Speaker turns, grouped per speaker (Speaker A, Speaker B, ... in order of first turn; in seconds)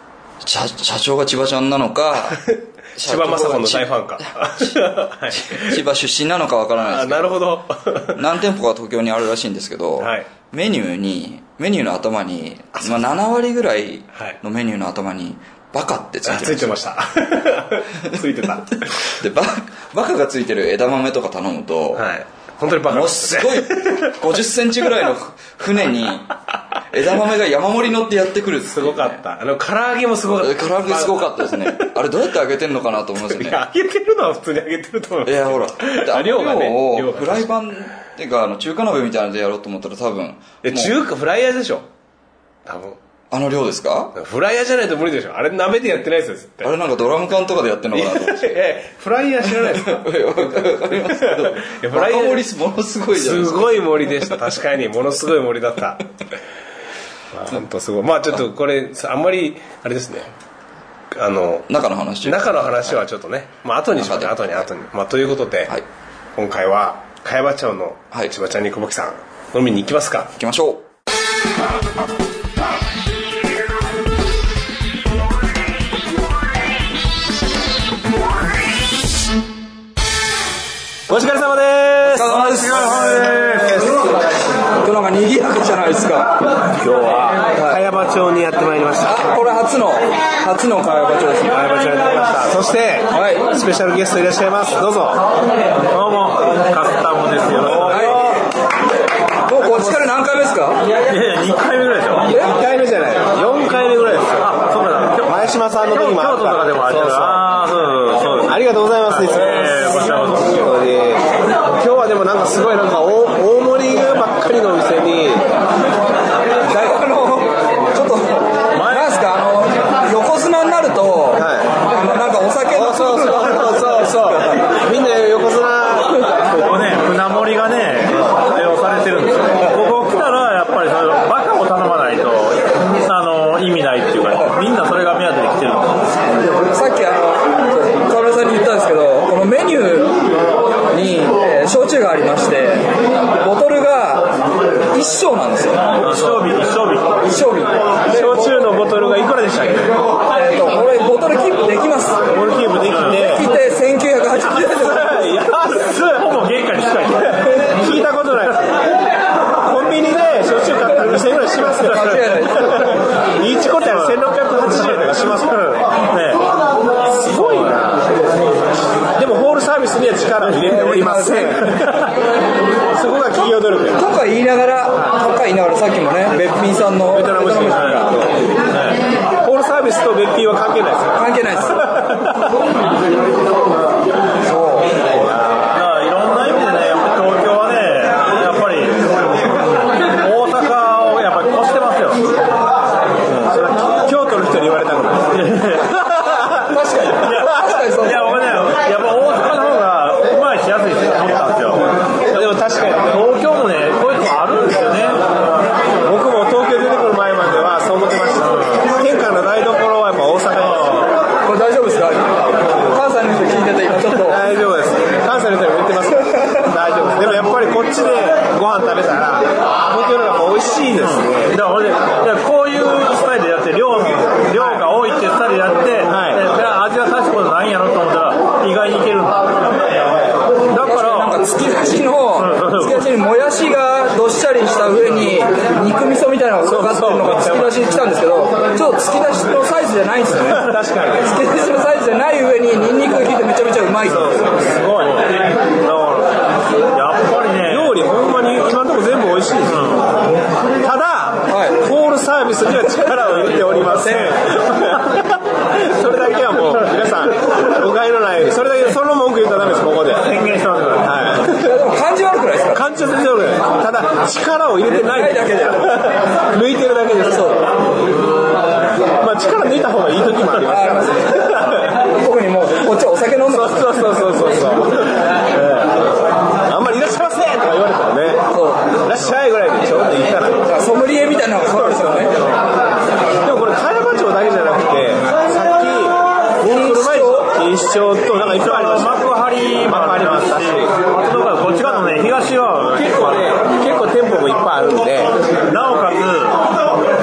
Speaker A: 0.4-2.4, 3.0-4.8, 5.3-7.4, 8.1-16.7, 19.0-22.1, 22.9-26.4, 26.9-29.2, 30.3-33.6, 35.2-41.0, 43.3-44.1, 46.6-48.5, 49.5-54.4, 61.7-63.0, 64.0-64.5, 70.3-70.8, 82.0-83.5, 84.8-86.5, 87.5-87.8, 89.0-91.6, 93.1-93.5, 97.8-98.4, 99.4-100.9, 116.6-124.7, 136.2-140.2, 140.9-146.4, 147.2-148.7, 150.3-152.2, 153.0-155.2, 161.7-163.0, 170.5-172.0, 173.9-178.3, 181.1-182.0, 184.4-185.0, 196.5-198.5, 211.4-214.5, 230.8-244.7, 251.5-251.9, 261.5-262.8, 264.9-265.9, 267.3-267.6, 270.7-274.2, 278.5-278.9, 280.6-282.4, 286.6-287.5
Speaker B: 2.4-5.8, 6.9-8.2, 10.0-10.3, 12.7-13.1, 16.2-19.2, 21.9-24.5, 28.7-32.0, 33.2-37.6, 40.6-41.9, 42.6-43.0, 44.1-46.7, 47.9-52.5, 53.1-56.1, 57.3-60.3, 61.1-65.8, 66.3-70.3, 81.1-82.9, 86.8-89.2, 91.5-95.2, 97.6-98.4, 99.6-100.0, 102.2-104.5, 105.2-107.5, 108.4-115.5, 121.3-121.8, 122.6-126.4, 148.1-150.0, 152.3-153.5, 154.5-156.2, 157.5-158.7, 159.6-165.8, 167.1-168.0, 169.1-172.1, 172.9-174.0, 177.1-178.4, 179.3-182.4, 185.1-185.7, 193.4-195.3, 202.3-203.2, 206.0-211.1, 214.2-221.6, 226.1-226.5, 236.6-237.7, 240.6-241.3, 247.7-249.9, 250.8-260.3, 261.0-261.8, 262.7-267.8, 269.1-271.9, 273.5-278.4, 279.0-280.7, 281.9-282.3, 283.4-289.2, 289.9-290.9, 293.0-295.3
Speaker C: 82.8-83.4, 95.8-98.2, 101.0-102.3, 104.4-110.5, 118.7-119.2, 126.5-136.0, 146.0-147.2, 152.9-153.2, 155.8-157.8, 163.8-164.2, 165.7-166.5, 178.7-179.0, 185.7-189.1, 189.6-192.3, 195.3-196.0, 197.2-201.9, 203.1-205.2, 208.5-208.8, 210.8-211.1, 221.0-230.1, 230.7-231.4, 232.4-233.1, 244.1-248.0, 249.7-250.1, 260.2-261.1, 288.3-293.6, 295.7-296.6